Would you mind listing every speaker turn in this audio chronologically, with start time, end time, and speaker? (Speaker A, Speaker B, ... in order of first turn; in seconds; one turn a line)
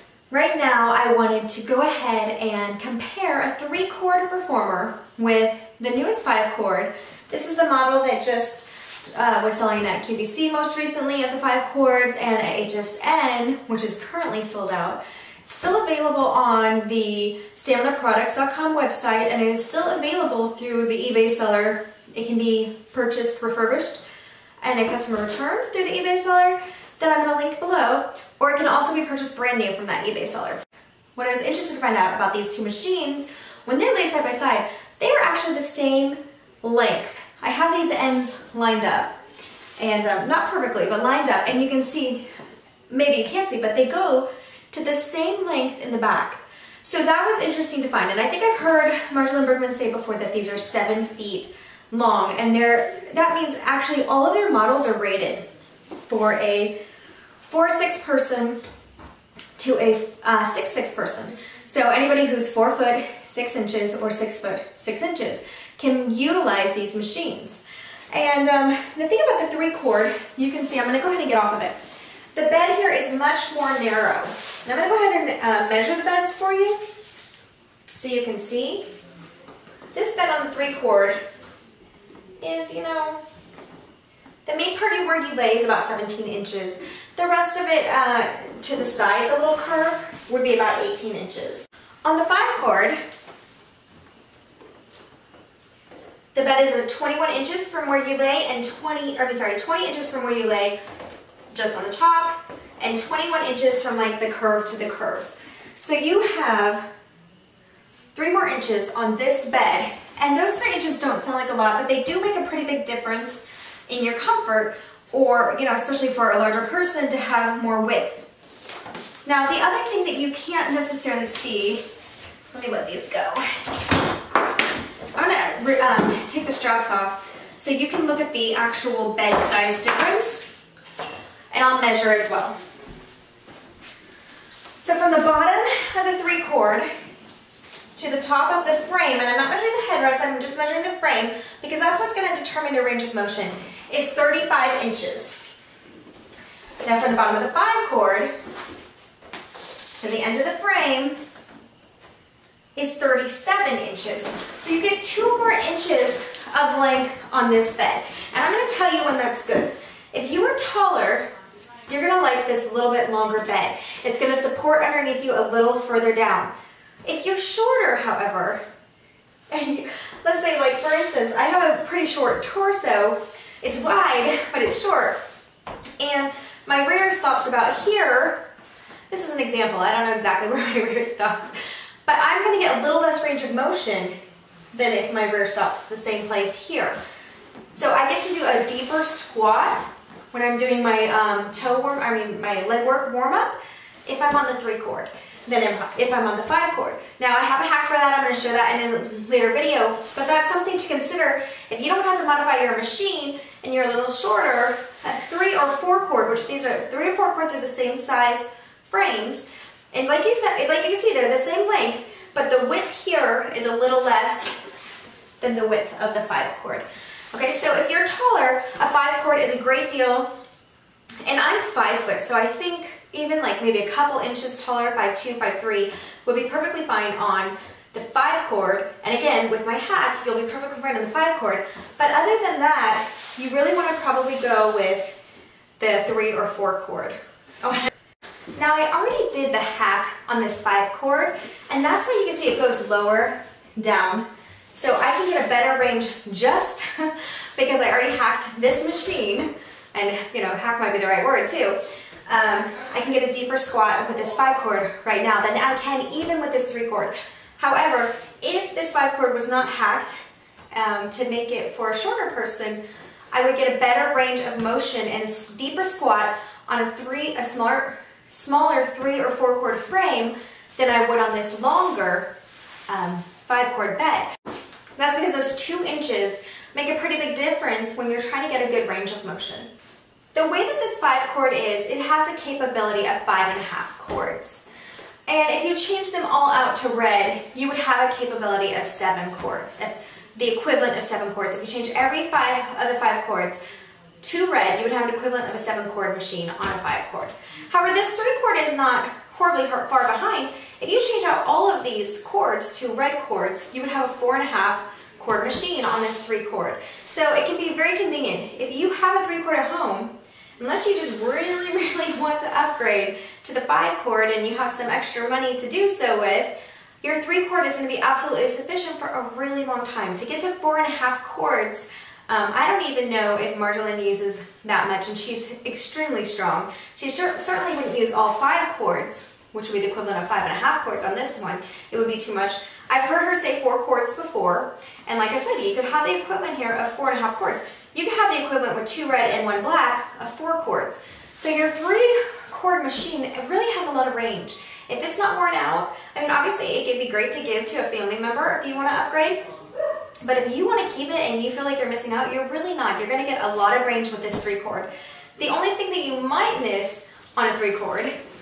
Speaker A: 0.3-24.0
Speaker A: 24.6-30.6
Speaker A: 31.1-39.1
Speaker A: 39.8-42.2
Speaker A: 42.9-55.4
Speaker A: 56.1-56.7
Speaker A: 57.4-58.6
Speaker A: 59.6-71.8
Speaker A: 72.3-76.8
Speaker A: 77.9-78.9
Speaker A: 79.9-81.2
Speaker A: 82.4-83.2
Speaker A: 84.4-93.0
Speaker A: 96.3-100.8
Speaker A: 101.5-106.8
Speaker A: 108.1-118.2
Speaker A: 119.2-121.8
Speaker A: 122.5-123.4
Speaker A: 125.1-130.5
Speaker A: 131.5-132.5
Speaker A: 134.8-136.9
Speaker A: 137.9-145.5
Speaker A: 146.8-148.3
Speaker A: 150.0-151.2
Speaker A: 152.8-161.3
Speaker A: 161.9-166.5
Speaker A: 167.0-168.6
Speaker A: 169.5-175.2
Speaker A: 176.0-178.4
Speaker A: 179.1-184.2
Speaker A: 184.7-187.0
Speaker A: 187.7-214.6
Speaker A: 215.4-220.3
Speaker A: 221.2-235.1
Speaker A: 235.8-237.9
Speaker A: 238.6-260.1
Speaker A: 260.7-262.8
Speaker A: 263.3-272.3
Speaker A: 272.9-274.3
Speaker A: 275.0-279.7
Speaker A: 280.3-284.6
Speaker A: 285.3-293.6
Speaker A: 294.2-349.4
Speaker A: 350.2-358.1